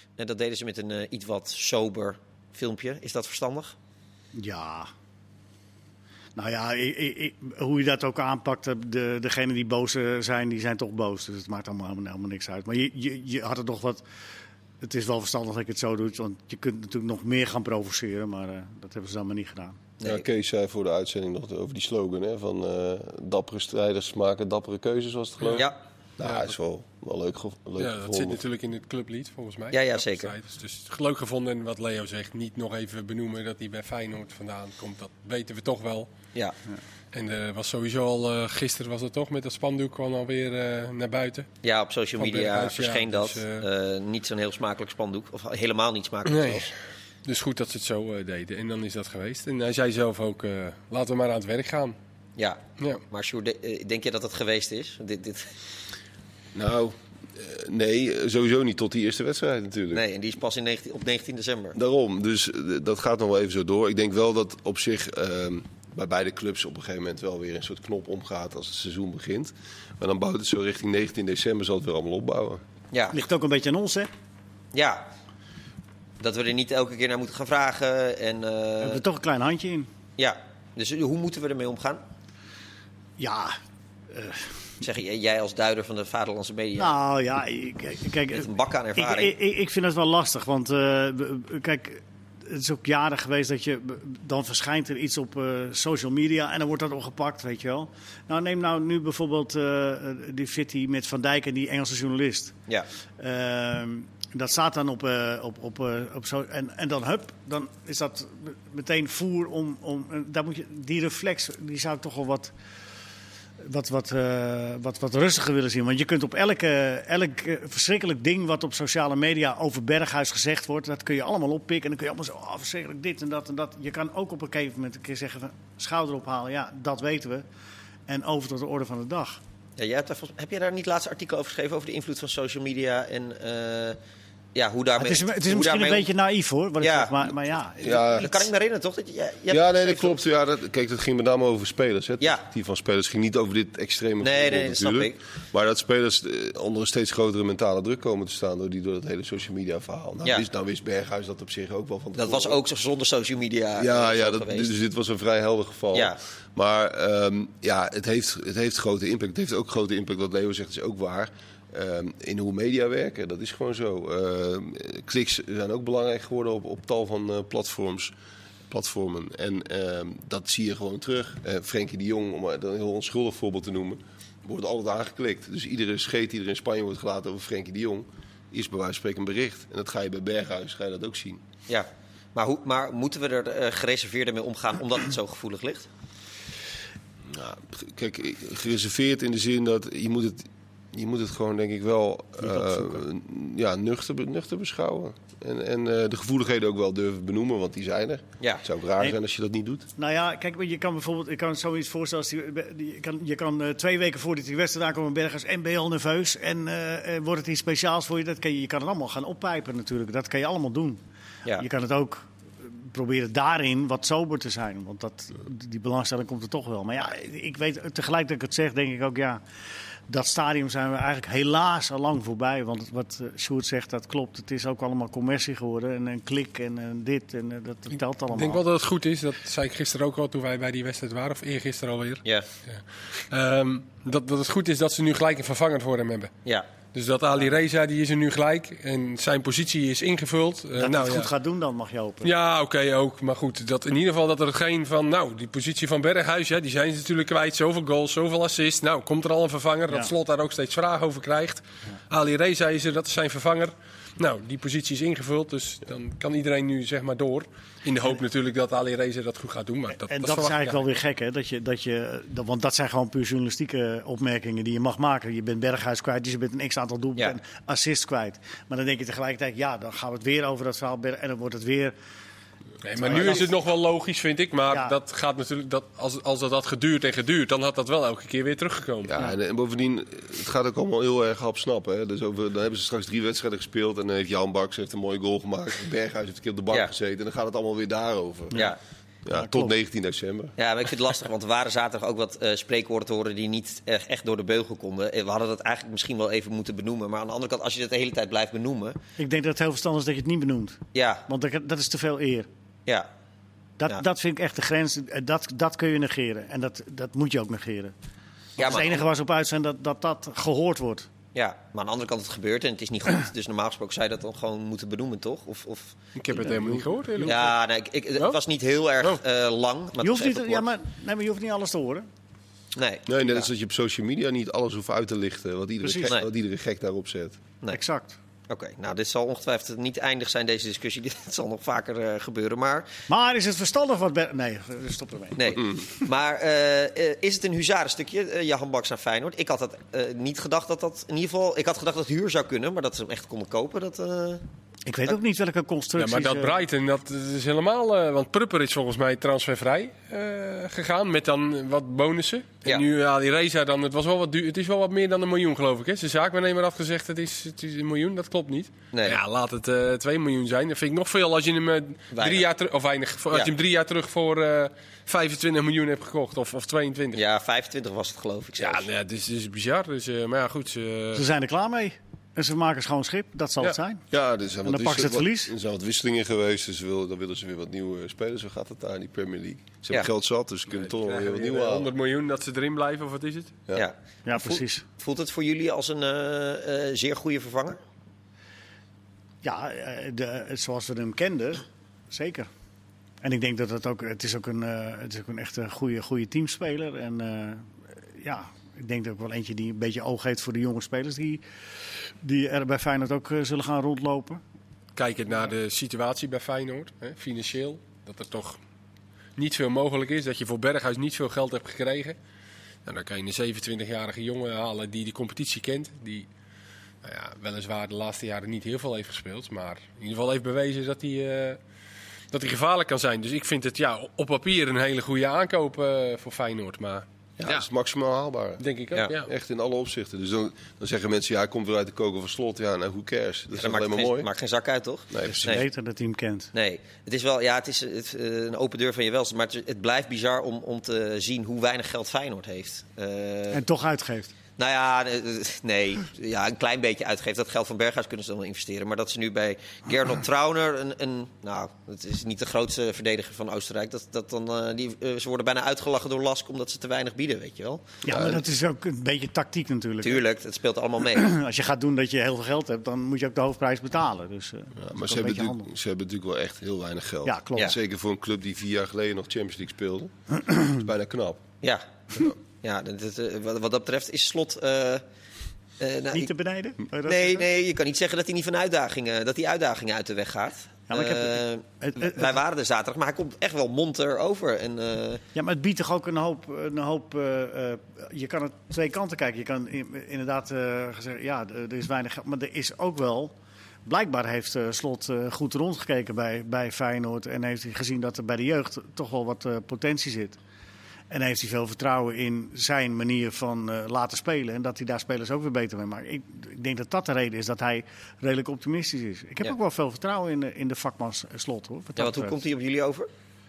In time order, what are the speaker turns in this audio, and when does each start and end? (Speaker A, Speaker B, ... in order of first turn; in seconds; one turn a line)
Speaker A: 0.2-3.8
Speaker B: 4.3-4.9
Speaker B: 6.4-14.0
Speaker B: 14.8-19.8
Speaker A: 20.0-20.3
Speaker C: 20.0-28.4
Speaker D: 27.8-36.1
Speaker A: 29.7-30.3
Speaker D: 37.1-41.5
Speaker A: 41.6-46.7
Speaker D: 42.2-43.7
Speaker D: 46.3-46.7
Speaker D: 47.2-52.0
Speaker A: 52.4-55.5
Speaker C: 56.5-60.0
Speaker A: 59.9-61.8
Speaker C: 61.8-72.6
Speaker B: 73.1-74.1
Speaker A: 74.7-75.1
Speaker A: 76.2-79.0
Speaker B: 78.8-79.9
Speaker A: 80.2-82.0
Speaker B: 83.2-83.6
Speaker B: 84.1-84.5
Speaker A: 84.8-86.9
Speaker B: 86.8-102.5
Speaker A: 88.3-89.3
Speaker B: 103.2-112.5
Speaker B: 113.6-127.5
Speaker B: 128.1-129.4
Speaker A: 129.8-134.0
Speaker A: 134.5-136.1
Speaker B: 135.0-138.3
Speaker A: 136.8-137.3
Speaker C: 137.8-138.5
Speaker A: 138.2-140.2
Speaker C: 139.5-152.6
Speaker A: 144.2-145.2
Speaker A: 152.2-154.7
Speaker C: 153.8-168.1
Speaker A: 155.9-156.2
Speaker C: 168.7-181.4
Speaker A: 181.7-185.9
Speaker C: 187.3-199.9
Speaker B: 192.5-192.9
Speaker B: 200.0-211.0
Speaker B: 211.6-219.4
Speaker B: 220.1-228.6
Speaker D: 228.3-236.3
Speaker D: 236.9-241.3
Speaker B: 240.8-242.3
Speaker D: 242.2-260.8
Speaker B: 260.1-271.9
Speaker D: 272.8-279.1
Speaker B: 272.9-273.6
Speaker B: 274.7-275.0
Speaker C: 279.1-288.7
Speaker C: 289.2-290.6
Speaker B: 289.3-289.7
Speaker A: 290.6-299.0
Speaker B: 299.2-302.5
Speaker A: 300.9-301.2
Speaker B: 303.8-307.9
Speaker B: 308.6-311.1
Speaker A: 308.6-309.1
Speaker A: 311.4-316.0
Speaker D: 316.1-317.6
Speaker A: 317.2-320.7
Speaker B: 320.0-322.1
Speaker A: 322.8-323.5
Speaker C: 323.1-327.4
Speaker B: 327.7-328.2
Speaker A: 328.5-332.9
Speaker B: 333.1-335.4
Speaker A: 335.4-344.4
Speaker B: 344.9-346.6
Speaker D: 346.0-367.2
Speaker A: 358.9-359.2
Speaker A: 362.1-362.5
Speaker A: 367.1-368.9
Speaker D: 368.6-371.2
Speaker B: 371.1-374.0
Speaker C: 374.1-381.9
Speaker B: 374.6-375.5
Speaker D: 380.7-383.6
Speaker A: 383.7-387.8
Speaker B: 384.3-384.9
Speaker B: 389.4-392.5
Speaker B: 393.2-401.4
Speaker B: 402.2-404.4
Speaker D: 404.9-408.6
Speaker D: 409.4-412.2
Speaker D: 412.9-416.3
Speaker D: 417.0-421.6
Speaker D: 422.3-427.7
Speaker C: 427.4-434.3
Speaker D: 428.6-429.3
Speaker A: 433.6-435.6
Speaker C: 435.1-435.6
Speaker B: 435.2-436.5
Speaker A: 436.5-443.6
Speaker B: 443.5-444.3
Speaker A: 444.6-458.0
Speaker B: 458.1-460.2
Speaker C: 458.1-458.4
Speaker A: 460.0-461.3
Speaker B: 461.1-465.7
Speaker C: 464.8-471.4
Speaker B: 467.2-467.7
Speaker A: 471.6-475.0
Speaker A: 475.8-476.3
Speaker B: 476.1-477.5
Speaker A: 477.0-485.2
Speaker B: 480.9-482.4
Speaker B: 485.4-493.3
Speaker B: 493.9-500.4
Speaker B: 501.1-512.4
Speaker A: 512.0-513.1